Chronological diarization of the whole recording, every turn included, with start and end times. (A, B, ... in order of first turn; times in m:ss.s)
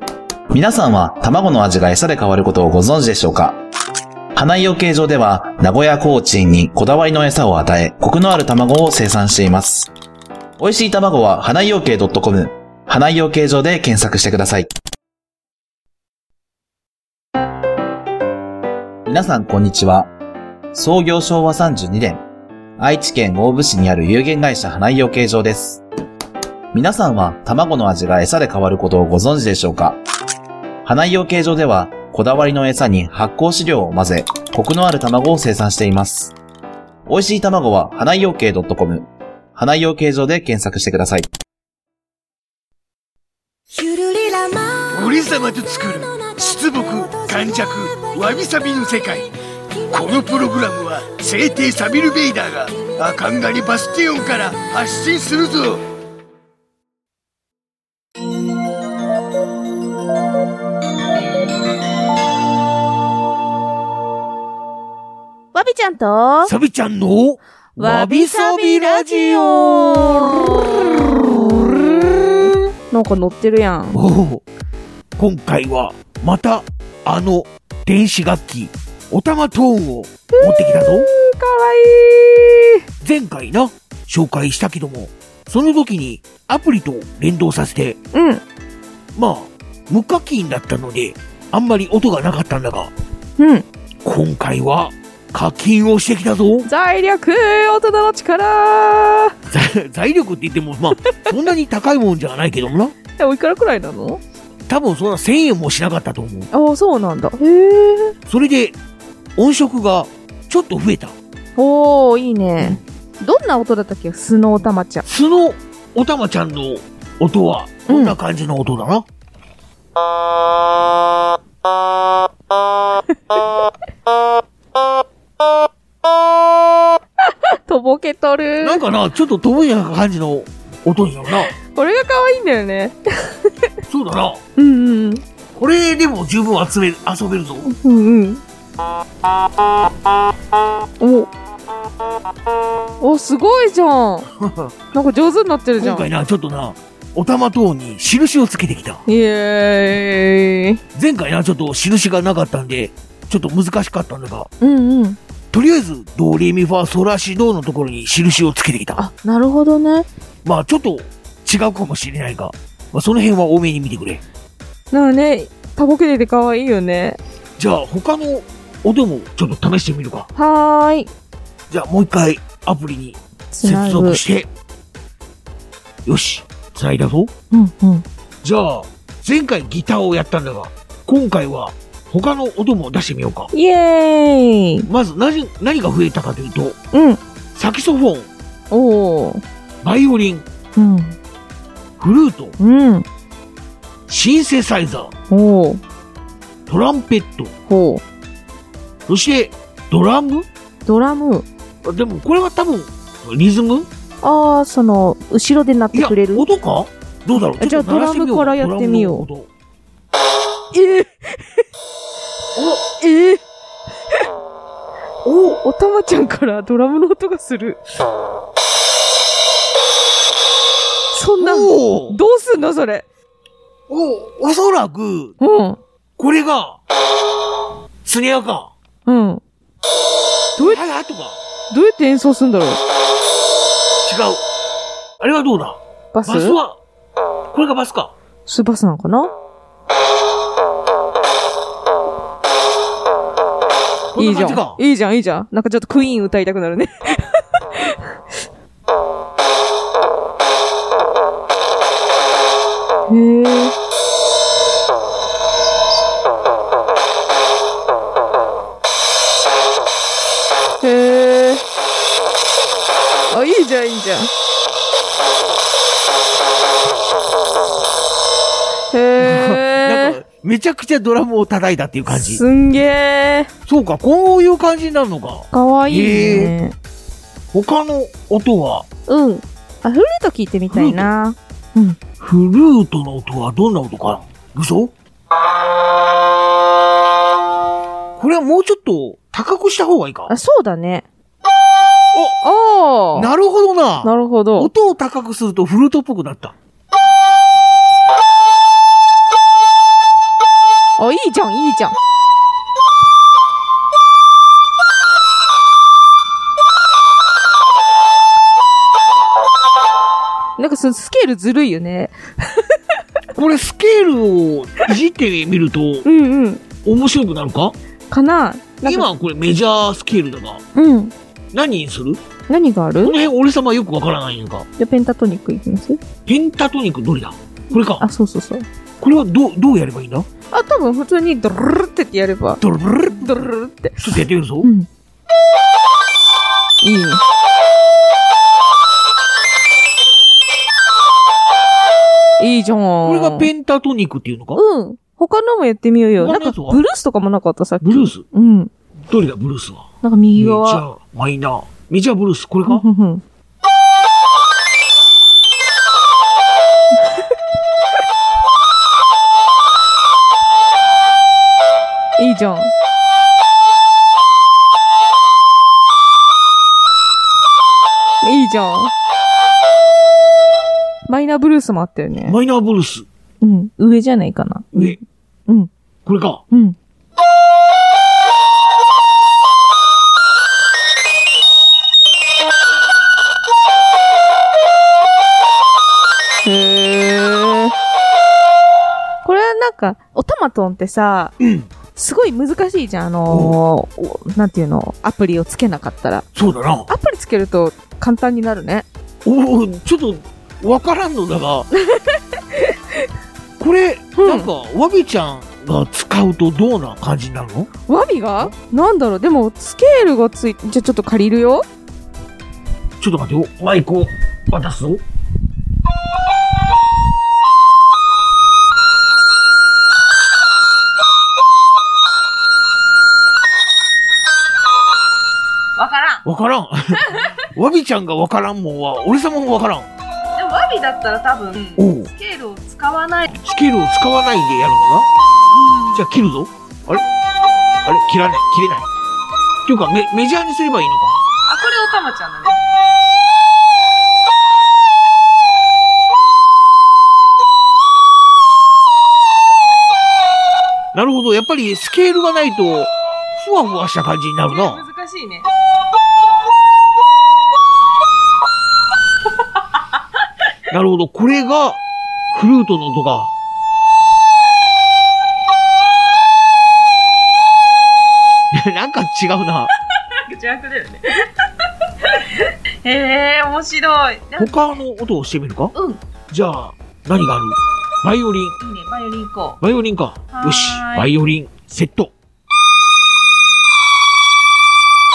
0:00.5-0:03.6 A
0:04.3-0:09.9 A
0:10.6-0:14.7 A
0:19.0-0:20.1 A
0:20.7-0:22.2 A
0:22.8-0:25.8 A
0:26.7-0:30.0 A
0:30.8-0:36.3 A
0:37.1-0:41.3 A
0:43.8-0:49.3 B
0:49.9-0:55.8 B
1:05.5-1:06.5 C
1:06.4-1:12.0 B
1:07.8-1:14.0 C
1:13.9-1:14.4 B
1:15.2-1:21.1 B
1:20.3-1:22.8 C
1:23.0-1:28.0 B
1:28.1-1:28.4 C
1:29.2-1:32.9 B
1:33.4-1:33.6 C
1:34.0-1:36.7 B
1:36.6-1:39.4 C
1:39.5-1:42.9 B
1:43.2-1:44.2 C
1:44.7-1:46.5 B
1:46.5-1:48.2 C
1:48.3-1:48.7 B
1:49.4-1:51.1 B
1:51.6-1:55.0 C
1:55.0-1:59.0 B
1:57.9-1:58.2 C
2:07.2-2:08.8 C
2:08.6-2:11.5 B
2:11.5-2:13.5 C
2:13.9-2:14.4 B
2:14.6-2:15.2 C
2:15.6-2:17.7 B
2:17.6-2:18.4 C
2:21.0-2:21.3 C
2:23.0-2:24.3 C
2:24.4-2:24.7 B
2:24.9-2:26.0 C
2:25.8-2:29.0 B
2:29.0-2:30.8 C
2:30.9-2:34.5 B
2:34.6-2:35.2 C
2:35.5-2:39.0 B
2:38.9-2:40.1 C
2:40.4-2:44.2 B
2:44.9-2:47.2 C
2:47.6-2:50.3 B
2:50.3-2:51.1 C
2:51.7-2:54.5 B
2:53.5-2:54.2 C
2:56.0-2:57.3 B
2:57.5-2:58.0 C
2:58.4-3:03.5 B
3:03.5-3:04.9 C
3:04.8-3:06.8 B
3:06.9-3:07.2 C
3:07.5-3:08.3 B
3:08.7-3:09.4 C
3:09.8-3:10.4 B
3:10.8-3:11.2 C
3:12.0-3:12.6 B
3:12.6-3:13.0 C
3:14.1-3:15.1 B
3:15.3-3:15.8 C
3:16.7-3:17.5 B
3:17.7-3:18.0 C
3:19.1-3:20.5 B
3:20.8-3:21.4 C
3:21.8-3:23.9 B
3:24.2-3:26.4 C
3:25.9-3:29.5 B
3:27.6-3:29.2 C
3:30.7-3:31.6 C
3:32.8-3:33.4 C
3:35.2-3:35.6 B
3:35.6-3:37.8 C
3:41.1-3:43.0 C
3:41.4-3:42.2 B
3:43.9-3:45.3 B
3:45.4-3:45.8 C
3:46.2-3:46.8 B
3:48.0-3:48.7 B
3:49.0-3:49.4 C
3:50.6-3:50.8 C
3:50.6-3:51.4 B
3:51.7-3:52.8 C
3:54.0-3:54.4 B
3:55.2-3:56.8 B
3:56.1-3:56.6 C
3:57.5-3:58.1 B
3:58.4-3:59.3 C
4:04.1-4:04.8 B
4:04.2-4:08.2 C
4:13.1-4:13.8 C
4:20.8-4:21.6 C
4:23.3-4:24.3 C
4:28.9-4:30.2 C
4:29.2-4:32.4 B
4:32.1-4:33.5 C
4:33.7-4:36.5 B
4:35.5-4:36.7 C
4:37.5-4:38.8 B
4:39.1-4:42.0 C
4:40.7-4:41.1 B
4:42.2-4:44.9 B
4:48.2-4:50.3 B
4:50.3-4:51.0 C
4:52.4-4:53.3 C
4:53.1-4:56.5 B
4:54.0-4:54.7 C
5:01.0-5:02.0 C
5:10.6-5:12.8 C
5:13.3-5:16.0 B
5:16.0-5:16.6 C
5:16.8-5:17.7 B
5:18.1-5:19.1 C
5:18.8-5:20.6 B
5:20.7-5:21.1 C
5:21.5-5:22.2 B
5:22.5-5:23.2 C
5:23.0-5:24.7 B
5:24.8-5:26.0 C
5:26.2-5:28.0 B
5:27.8-5:28.6 C
5:29.0-5:30.3 B
5:30.5-5:32.6 C
5:32.6-5:33.3 B
5:33.1-5:34.1 C
5:34.0-5:34.7 B
5:34.6-5:34.9 C
5:36.8-5:37.2 C
5:42.4-5:43.5 C
5:43.0-5:44.6 B
5:44.5-5:48.7 C
5:46.2-5:46.8 B
5:47.8-5:48.2 B
5:49.1-5:52.8 B
5:50.0-5:50.8 C
5:52.7-5:53.2 C
6:02.2-6:02.7 C
6:08.2-6:08.9 C
6:11.1-6:12.4 C
6:12.2-6:13.0 B
6:13.4-6:15.7 C
6:14.7-6:15.0 B
6:16.0-6:16.4 B
6:16.5-6:16.8 C
6:26.4-6:27.7 C
6:29.2-6:31.3 C
6:31.4-6:31.7 B
6:31.9-6:36.3 C
6:33.3-6:33.6 B
6:36.3-6:36.9 B
6:36.9-6:38.8 C
6:39.2-6:41.7 B
6:41.7-6:43.0 C
6:43.6-6:47.7 B
6:44.2-6:44.5 C
6:47.9-6:51.6 C
6:53.0-6:55.0 B
7:05.8-7:06.2 C
7:06.2-7:09.9 B
7:06.9-7:07.4 C
7:10.3-7:13.4 C
7:11.8-7:12.1 B
7:13.4-7:15.1 B
7:15.5-7:16.0 C
7:15.9-7:17.0 B
7:17.8-7:18.9 B
7:19.6-7:21.2 B
7:21.4-7:22.6 C
7:30.9-7:34.8 B
7:34.5-7:35.5 C
7:40.7-7:41.8 B
7:42.3-7:43.3 B
7:48.5-7:49.7 B
7:50.1-7:51.3 C
7:52.0-7:54.6 C
7:54.4-7:55.7 B
7:55.7-7:56.0 C
7:56.3-7:58.6 B
7:58.6-7:59.6 C
7:59.6-8:02.1 B
8:00.3-8:01.1 C